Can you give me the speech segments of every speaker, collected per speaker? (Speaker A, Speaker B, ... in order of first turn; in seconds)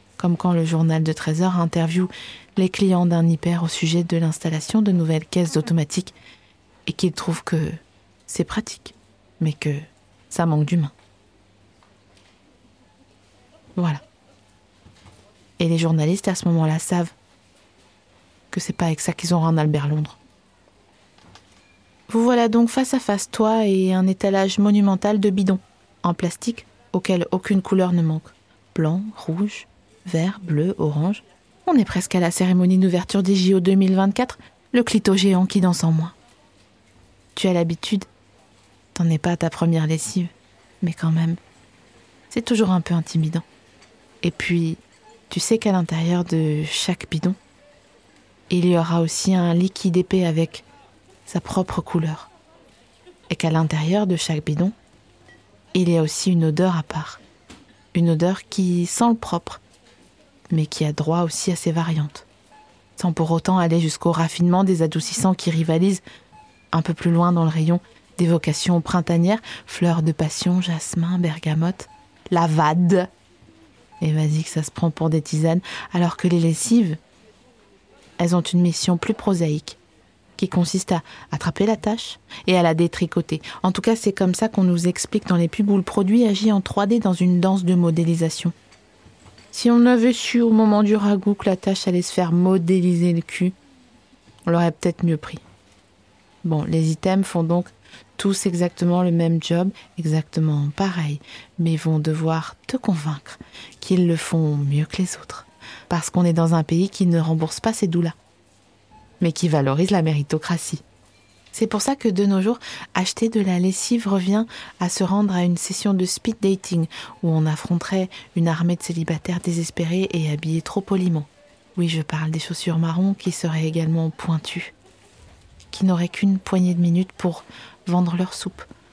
Speaker A: 0.2-6.1, 6.8-10.9, 13.8-14.0, 15.6-17.1, 18.5-20.2, 22.1-36.1, 37.3-38.1, 38.9-41.4, 42.3-43.5, 44.2-47.4, 48.5-50.6, 51.3-52.3, 53.3-54.7, 55.7-57.2, 57.9-59.6, 60.5-62.3, 63.0-66.0, 66.7-73.1, 74.0-77.0, 78.2-79.8, 80.4-88.5, 89.5-93.5, 94.4-95.4, 96.4-108.2, 109.2-110.8, 111.5-124.7, 125.7-128.7